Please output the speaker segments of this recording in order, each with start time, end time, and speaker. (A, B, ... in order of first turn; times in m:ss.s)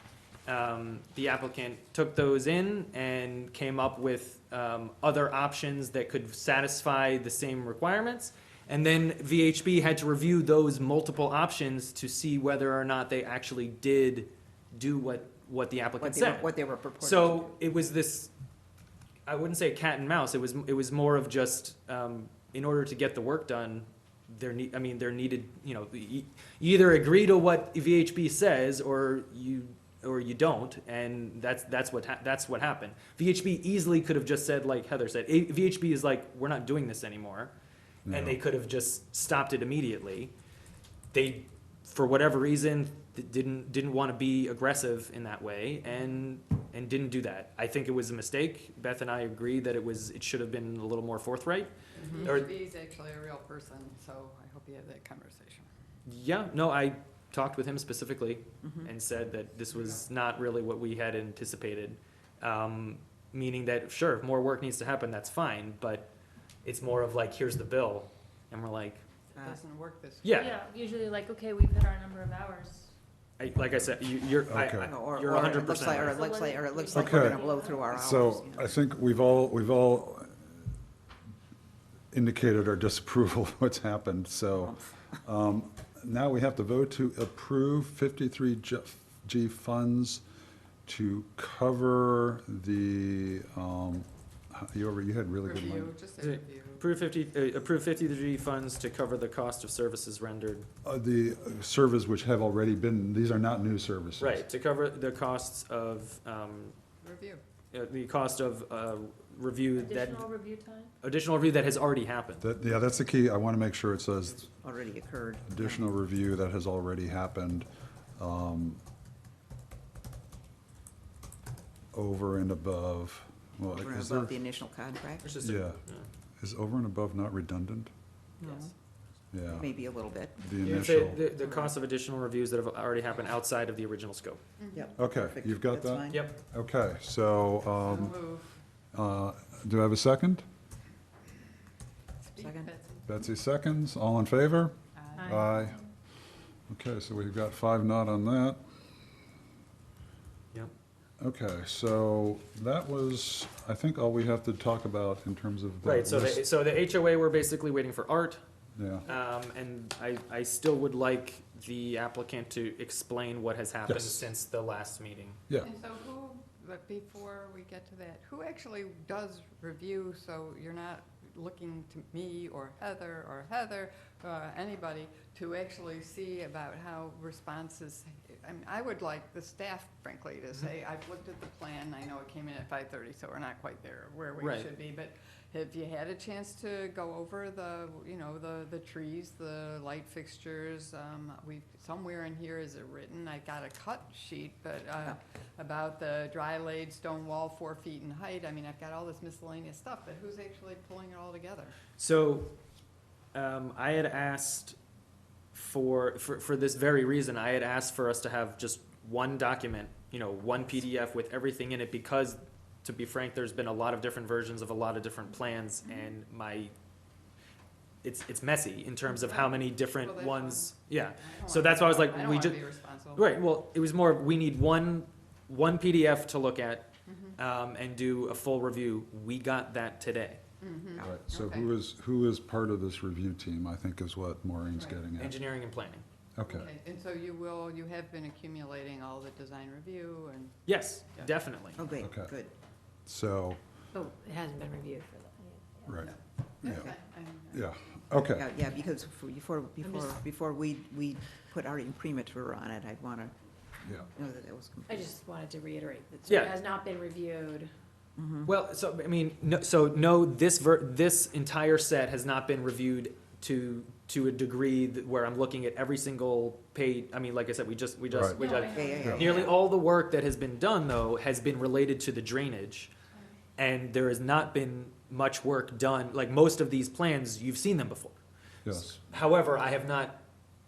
0:00.5-0:18.3 A
0:16.0-0:17.6 B
0:19.3-0:37.5 A
0:38.1-0:38.4 C
0:38.1-0:40.3 A
0:41.1-0:51.7 A
0:51.9-0:55.7 D
0:52.0-0:52.3 B
0:52.2-0:52.5 A
0:56.1-1:06.1 A
0:58.6-0:58.9 B
0:59.7-1:00.0 D
1:06.6-1:09.0 A
1:09.4-1:10.6 D
1:10.2-1:10.5 A
1:10.3-1:12.9 E
1:13.4-1:16.3 A
1:14.5-1:14.9 C
1:14.9-1:18.8 B
1:15.4-1:17.9 E
1:16.9-1:20.4 C
1:22.1-1:30.2 C
1:30.9-1:35.9 C
1:35.4-1:36.9 D
1:36.2-1:40.7 A
1:40.8-1:44.4 C
1:44.2-1:46.8 A
1:47.0-1:47.4 D
1:47.7-1:50.3 A
1:49.8-1:50.9 E
1:51.0-1:52.5 A
1:52.4-1:54.5 C
1:54.5-1:55.8 B
1:55.5-1:58.8 C
2:01.9-2:04.3 C
2:03.7-2:05.3 B
2:05.2-2:06.1 A
2:05.4-2:05.8 C
2:06.4-2:07.9 C
2:08.4-2:08.7 B
2:08.4-2:08.7 A
2:09.3-2:09.7 C
2:09.5-2:10.5 B
2:10.4-2:11.2 C
2:10.6-2:14.4 A
2:11.4-2:11.7 B
2:14.6-2:15.0 D
2:14.7-2:16.3 B
2:15.0-2:18.2 C
2:16.1-2:16.4 A
2:17.8-2:18.6 D
2:18.9-2:20.4 C
2:22.2-2:23.1 D
2:22.4-2:22.7 B
2:23.1-2:25.8 C
2:25.0-2:25.8 D
2:26.7-2:28.6 C
2:31.2-2:36.4 C
2:35.8-2:38.4 A
2:38.8-2:39.0 C
2:39.0-2:45.4 A
2:43.9-2:44.3 C
2:45.6-3:21.8 D
3:04.4-3:04.7 A
3:22.0-3:22.6 A
3:23.3-3:24.8 A
3:25.5-3:36.7 A
3:38.0-3:42.6 A
3:39.1-3:43.4 D
3:43.2-3:50.4 A
3:47.1-3:47.4 D
3:50.6-3:51.7 D
3:51.0-3:55.4 C
3:55.2-3:56.0 A
3:56.4-3:56.7 C
3:56.5-4:00.6 D
4:00.7-4:01.8 A
4:01.8-4:02.5 B
4:02.0-4:02.3 C
4:03.1-4:03.6 C
4:03.9-4:05.4 F
4:05.5-4:05.9 E
4:05.9-4:06.1 C
4:06.0-4:08.2 D
4:06.6-4:06.9 C
4:06.7-4:07.0 B
4:07.5-4:08.5 C
4:08.3-4:13.3 B
4:09.8-4:10.2 F
4:14.0-4:15.2 B
4:14.9-4:17.7 F
4:16.3-4:16.6 A
4:18.2-4:18.5 B
4:18.4-4:32.9 A
4:28.1-4:28.4 C
4:28.4-4:29.5 E
4:28.7-4:29.6 B
4:29.0-4:29.3 C
4:33.6-4:38.2 A
4:38.6-4:39.0 C
4:38.7-4:40.2 A